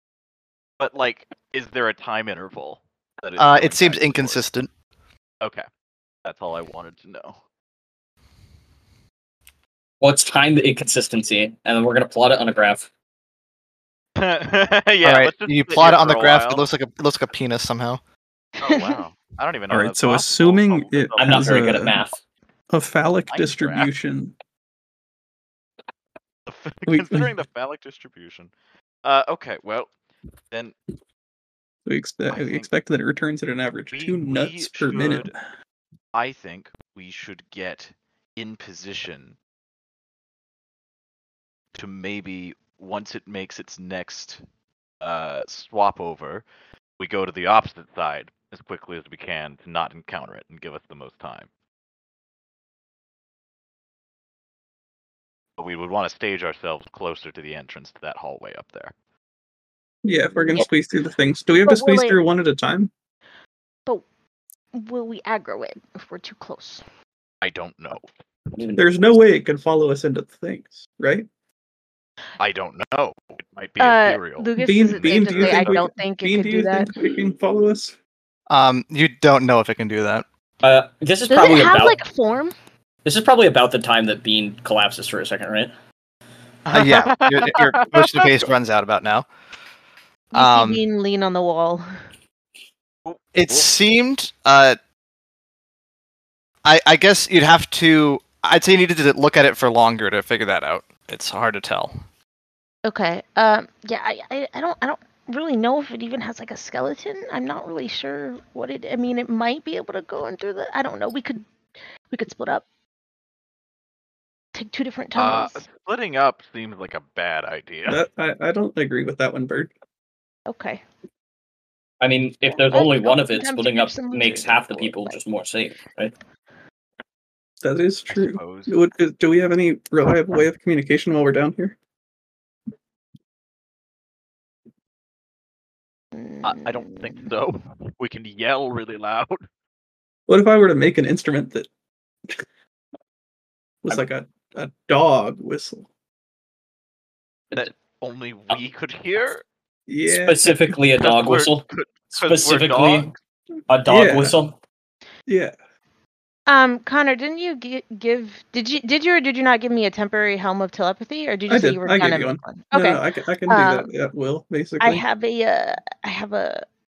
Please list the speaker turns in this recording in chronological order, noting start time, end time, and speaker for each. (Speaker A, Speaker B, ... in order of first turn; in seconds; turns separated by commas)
Speaker A: 0.8-4.4, Speaker B: 3.4-4.7, Speaker A: 5.4-5.7, Speaker A: 6.2-7.4, Speaker C: 10.0-12.9, Speaker A: 14.2-16.6, Speaker B: 15.0-18.0, Speaker A: 18.6-21.7, Speaker D: 18.6-19.0, Speaker E: 19.7-22.0, Speaker C: 21.2-22.2, Speaker E: 22.7-24.3, Speaker A: 23.3-23.9, Speaker A: 26.4-28.5, Speaker E: 26.9-27.3, Speaker A: 29.0-29.9, Speaker E: 31.9-35.4, Speaker A: 32.3-32.7, Speaker A: 33.9-35.3, Speaker A: 36.1-39.4, Speaker A: 41.7-44.4, Speaker A: 45.0-46.4, Speaker A: 47.0-51.5, Speaker A: 55.6-58.9, Speaker E: 60.0-62.9, Speaker D: 61.6-62.2, Speaker D: 64.7-66.8, Speaker A: 67.4-68.1, Speaker C: 68.5-69.2, Speaker E: 68.8-71.3, Speaker A: 72.4-75.8, Speaker D: 73.8-76.9, Speaker E: 74.6-78.0, Speaker B: 78.5-80.2, Speaker C: 80.6-82.0, Speaker D: 81.2-82.5, Speaker C: 83.0-85.7, Speaker A: 86.7-88.4, Speaker B: 86.7-89.3, Speaker B: 90.3-90.8, Speaker D: 90.3-91.8, Speaker A: 93.0-93.7, Speaker B: 93.3-94.8, Speaker B: 96.6-102.0, Speaker D: 102.8-111.4, Speaker D: 112.1-112.6, Speaker D: 114.5-115.6, Speaker A: 115.1-118.0, Speaker E: 117.9-119.7, Speaker D: 120.5-120.8, Speaker C: 122.0-126.1, Speaker D: 122.5-125.2, Speaker E: 127.6-131.8, Speaker A: 128.1-128.8, Speaker D: 136.1-137.3, Speaker A: 136.4-139.4, Speaker E: 140.3-141.7, Speaker E: 143.8-145.9, Speaker A: 147.5-149.4, Speaker E: 149.9-150.8, Speaker C: 150.1-151.6, Speaker A: 151.0-153.2, Speaker C: 152.2-153.1, Speaker C: 153.7-154.6, Speaker E: 153.8-154.4, Speaker E: 155.3-155.6, Speaker D: 156.5-163.9, Speaker E: 161.5-165.0, Speaker D: 164.8-166.6